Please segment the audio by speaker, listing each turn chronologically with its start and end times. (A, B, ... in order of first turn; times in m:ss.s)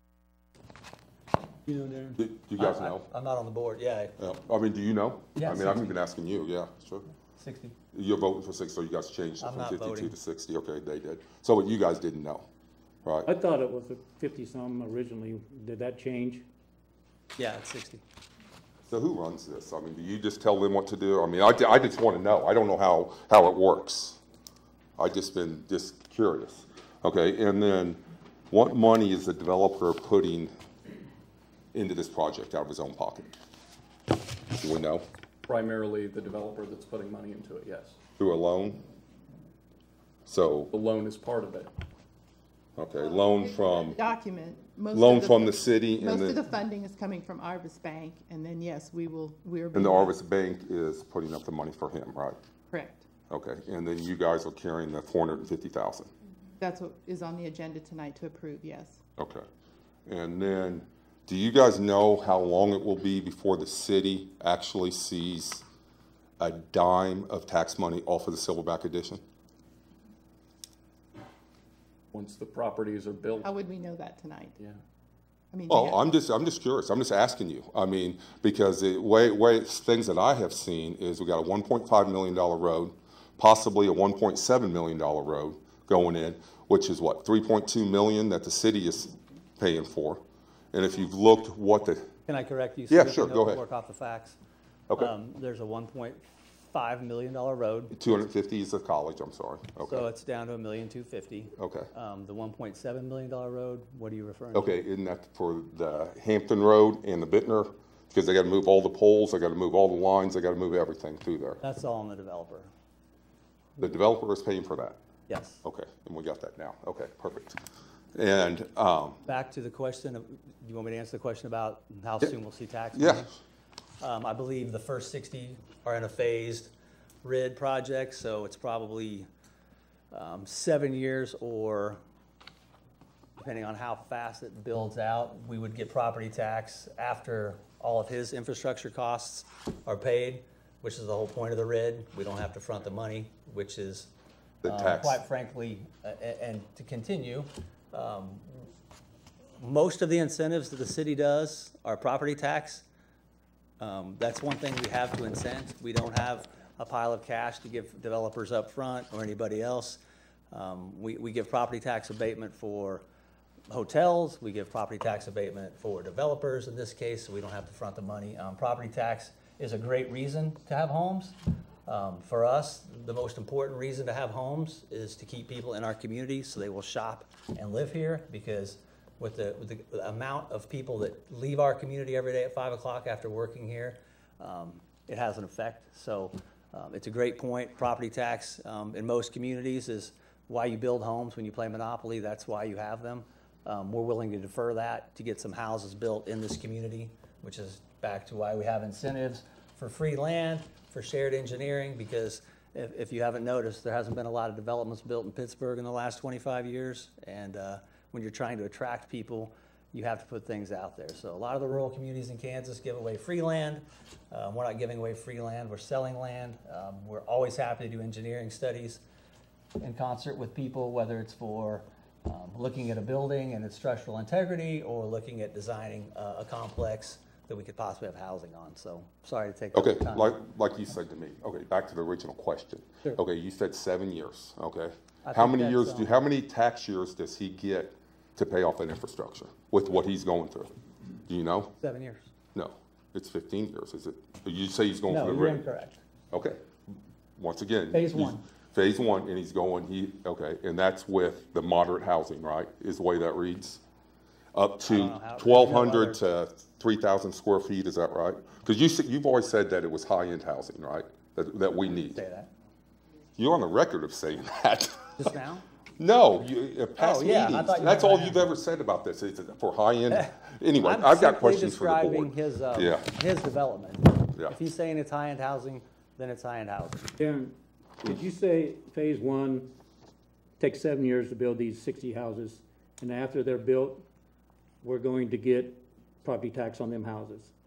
0:01.7-0:02.1 A
0:02.2-0:03.1 B
0:02.6-0:04.1 C
0:04.2-0:07.0 B
0:05.4-0:05.9 C
0:07.4-0:07.8 C
0:07.9-0:12.5 B
0:09.4-0:10.2 C
0:13.0-0:13.3 B
0:13.2-0:16.4 A
0:17.4-0:18.0 C
0:18.9-0:24.2 B
0:25.0-0:30.5 B
0:31.7-0:33.3 B
0:34.5-0:35.0 B
0:35.5-0:38.0 D
0:38.2-0:38.8 B
0:40.3-0:40.7 B
0:40.7-0:41.7 D
0:42.8-0:44.0 B
0:43.6-0:50.2 E
0:44.9-0:46.4 B
0:49.7-0:52.4 B
0:52.7-0:53.0 E
0:53.3-0:56.1 B
0:56.6-0:59.0 E
0:59.2-0:59.5 B
1:00.1-1:05.6 B
1:06.4-1:09.2 B
1:12.1-1:13.5 D
1:13.4-1:14.6 E
1:15.5-1:16.0 E
1:15.7-1:30.2 B
1:30.7-1:32.1 B
1:32.3-1:34.4 C
1:32.9-1:33.6 B
1:35.0-1:38.1 C
1:37.9-1:40.0 B
1:39.8-1:44.7 C
1:41.6-1:41.9 B
1:44.5-1:51.6 B
1:51.6-1:52.7 C
1:53.8-1:55.0 B
1:55.3-1:55.6 C
1:55.6-1:57.6 B
1:58.1-1:59.2 B
1:59.2-2:03.3 C
2:02.9-2:03.2 B
2:04.0-2:06.7 C
2:07.2-2:09.3 C
2:10.1-2:12.0 C
2:13.4-2:24.1 C
2:24.6-2:25.2 B
2:24.6-2:28.6 C
2:29.6-2:32.8 C
2:33.8-2:40.0 C
2:40.5-2:43.0 C
2:43.7-3:39.0 C
3:39.8-3:50.4 C
3:49.7-4:00.7 B
3:55.2-3:56.1 C
4:01.3-4:01.7 B
4:01.8-4:02.3 C
4:02.5-4:05.6 B
4:05.1-4:06.0 C
4:06.3-4:06.6 B
4:07.4-4:13.8 B
4:07.9-4:08.4 C
4:14.5-4:22.2 B
4:14.8-4:16.2 C
4:22.0-4:22.5 C
4:23.4-4:25.3 B
4:25.2-4:25.6 C
4:26.0-4:33.1 B
4:27.0-4:28.5 C
4:30.1-4:37.1 C
4:37.2-4:39.7 A
4:40.6-4:44.0 A
4:44.8-4:47.5 A